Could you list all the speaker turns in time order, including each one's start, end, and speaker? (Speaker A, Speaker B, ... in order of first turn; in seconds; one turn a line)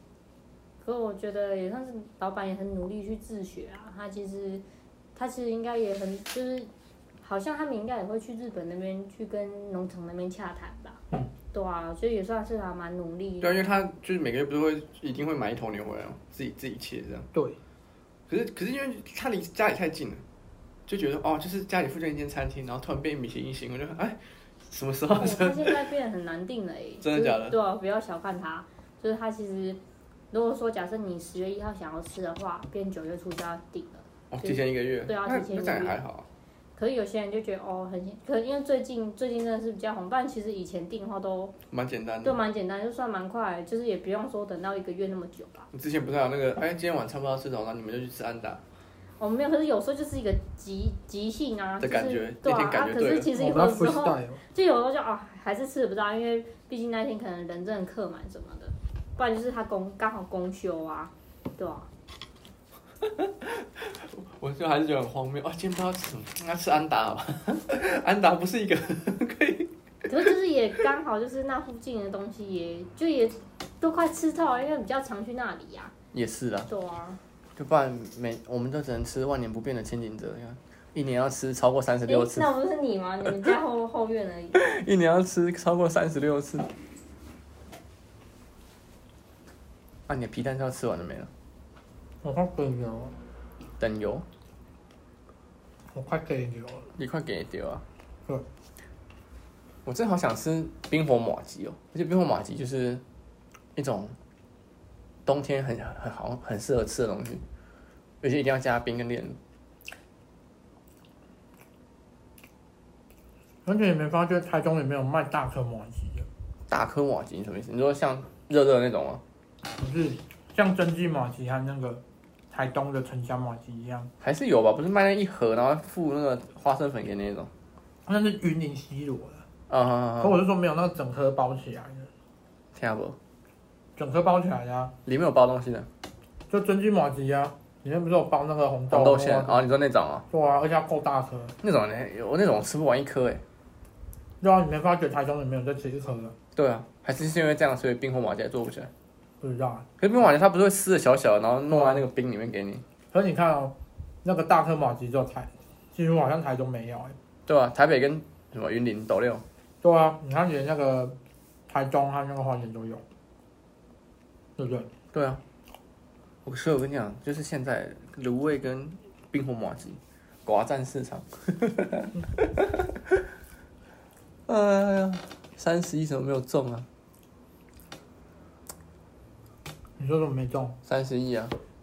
Speaker A: 0.8-4.6
Speaker A: 5.2-6.7
Speaker A: 7.2-11.0
Speaker A: 11.5-13.7
Speaker B: 13.4-17.3
Speaker B: 18.3-20.2
Speaker B: 20.9-25.8
Speaker A: 25.2-29.8
Speaker B: 27.0-27.6
Speaker A: 30.3-36.0
Speaker B: 34.3-36.3
Speaker A: 36.8-41.5
Speaker B: 41.7-42.4
Speaker A: 42.2-45.7
Speaker B: 45.7-48.6
Speaker A: 49.2-61.9
Speaker B: 51.8-53.3
Speaker C: 53.3-54.4
Speaker B: 63.0-70.3
Speaker A: 70.1-75.9
Speaker B: 76.1-76.7
Speaker A: 76.7-77.2
Speaker B: 77.6-82.5
Speaker A: 82.1-84.6
Speaker B: 84.5-86.7
Speaker B: 90.1-91.3
Speaker C: 92.2-93.2
Speaker B: 93.8-94.2
Speaker C: 95.9-96.9
Speaker B: 97.0-97.8
Speaker B: 99.8-103.0
Speaker B: 103.8-104.2
Speaker B: 105.3-107.4
Speaker B: 108.2-109.4
Speaker C: 113.7-116.3
Speaker B: 116.7-119.2
Speaker C: 119.8-124.1
Speaker B: 124.2-127.5
Speaker C: 128.1-129.4
Speaker B: 129.7-130.4
Speaker C: 130.2-132.1
Speaker B: 132.8-133.2
Speaker C: 134.0-134.9
Speaker B: 135.1-135.9
Speaker C: 136.5-139.6
Speaker B: 138.9-140.2
Speaker C: 140.3-141.5
Speaker B: 141.6-143.4
Speaker C: 144.4-146.3
Speaker B: 146.6-148.9
Speaker C: 149.4-149.9
Speaker B: 150.0-152.8
Speaker C: 151.7-152.0
Speaker C: 153.1-157.2
Speaker B: 157.5-159.4
Speaker C: 159.8-161.2
Speaker C: 161.7-163.0
Speaker C: 164.6-164.9
Speaker B: 165.1-165.4
Speaker B: 166.4-172.9
Speaker B: 174.5-176.9
Speaker C: 180.0-180.8
Speaker B: 180.9-181.5